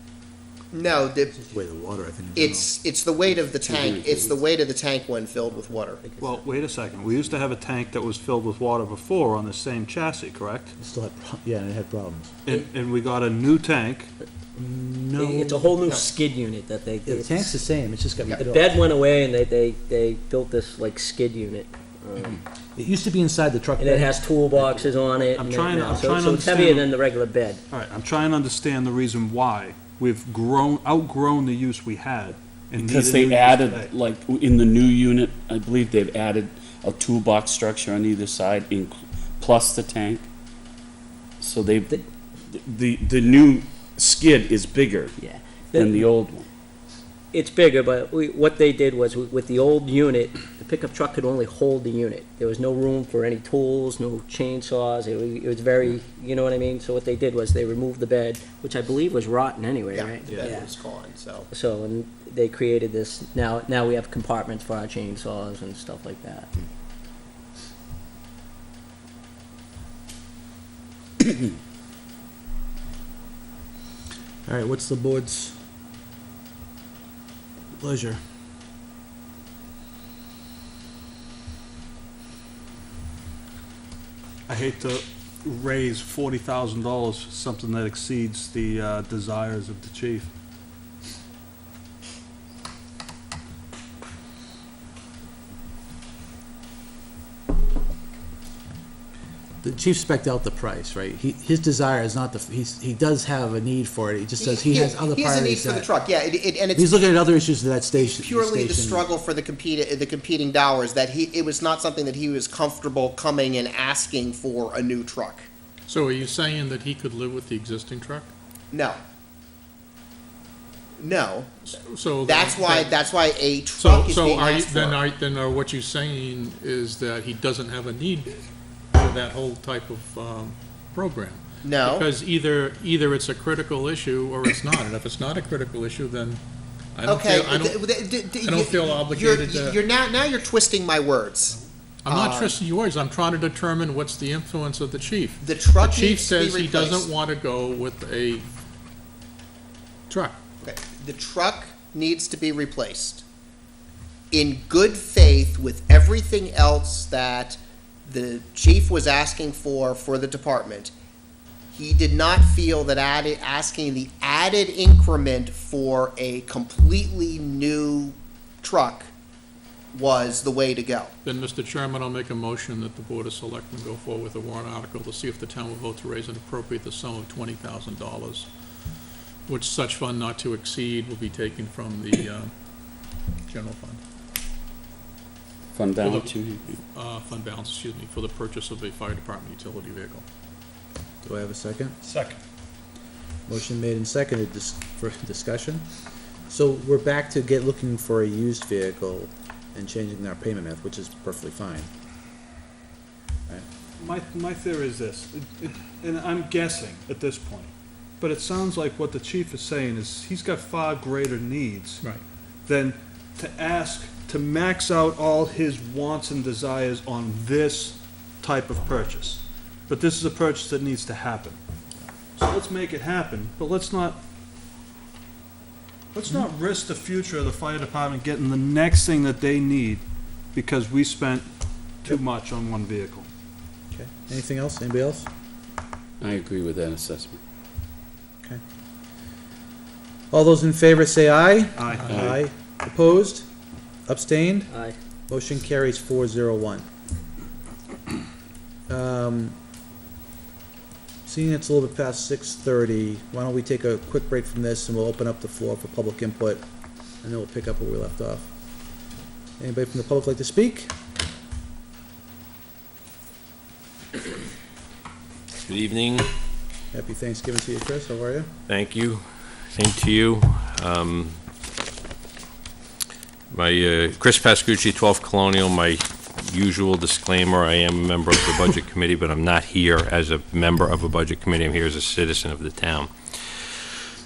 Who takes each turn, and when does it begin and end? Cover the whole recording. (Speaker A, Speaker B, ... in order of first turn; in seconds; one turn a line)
Speaker A: 0.7-1.4
Speaker B: 1.3-2.7
Speaker A: 2.3-6.0
Speaker C: 3.3-4.4
Speaker D: 5.4-6.4
Speaker E: 6.2-10.8
Speaker B: 10.8-12.3
Speaker E: 12.4-14.1
Speaker B: 14.5-15.8
Speaker D: 15.2-17.6
Speaker A: 15.9-16.1
Speaker B: 17.1-18.8
Speaker D: 18.3-22.4
Speaker B: 22.8-24.1
Speaker D: 23.8-27.6
Speaker E: 25.3-26.9
Speaker E: 27.7-33.9
Speaker C: 32.8-40.2
Speaker C: 41.4-46.4
Speaker D: 45.2-46.1
Speaker D: 47.3-60.7
Speaker A: 59.9-61.5
Speaker D: 61.5-66.6
Speaker B: 74.5-75.5
Speaker B: 77.8-78.2
Speaker E: 84.5-90.3
Speaker B: 99.6-105.9
Speaker A: 104.4-107.0
Speaker B: 106.7-109.0
Speaker A: 108.0-115.5
Speaker F: 115.9-118.3
Speaker A: 118.7-119.0
Speaker A: 121.0-121.6
Speaker F: 121.6-123.0
Speaker A: 122.2-125.0
Speaker F: 123.8-128.4
Speaker F: 128.9-136.4
Speaker A: 131.6-132.1
Speaker F: 136.9-139.8
Speaker A: 137.1-141.6
Speaker F: 142.0-148.5
Speaker A: 142.1-142.5
Speaker A: 145.4-147.1
Speaker F: 150.1-150.4
Speaker A: 150.6-153.2
Speaker A: 154.3-160.9
Speaker A: 161.7-169.1
Speaker A: 169.9-171.1
Speaker F: 171.2-178.5
Speaker F: 179.5-182.5
Speaker F: 183.4-184.0
Speaker C: 185.7-186.8
Speaker F: 186.0-186.3
Speaker F: 186.9-190.2
Speaker B: 191.2-192.0
Speaker E: 192.0-192.4
Speaker B: 193.5-195.8
Speaker B: 196.5-201.9
Speaker E: 204.0-212.0
Speaker E: 212.6-221.6
Speaker E: 222.4-224.2
Speaker E: 226.1-233.3
Speaker B: 233.9-235.3
Speaker C: 236.2-237.4
Speaker B: 240.3-243.4
Speaker E: 241.8-242.2
Speaker C: 242.1-242.4
Speaker B: 244.1-244.7
Speaker D: 244.7-244.9
Speaker B: 245.3-246.8
Speaker B: 248.9-249.6
Speaker B: 251.2-256.6
Speaker B: 257.2-258.5
Speaker B: 259.6-260.9
Speaker G: 265.7-266.3
Speaker B: 266.9-268.5
Speaker G: 268.7-271.4
Speaker G: 273.5-283.8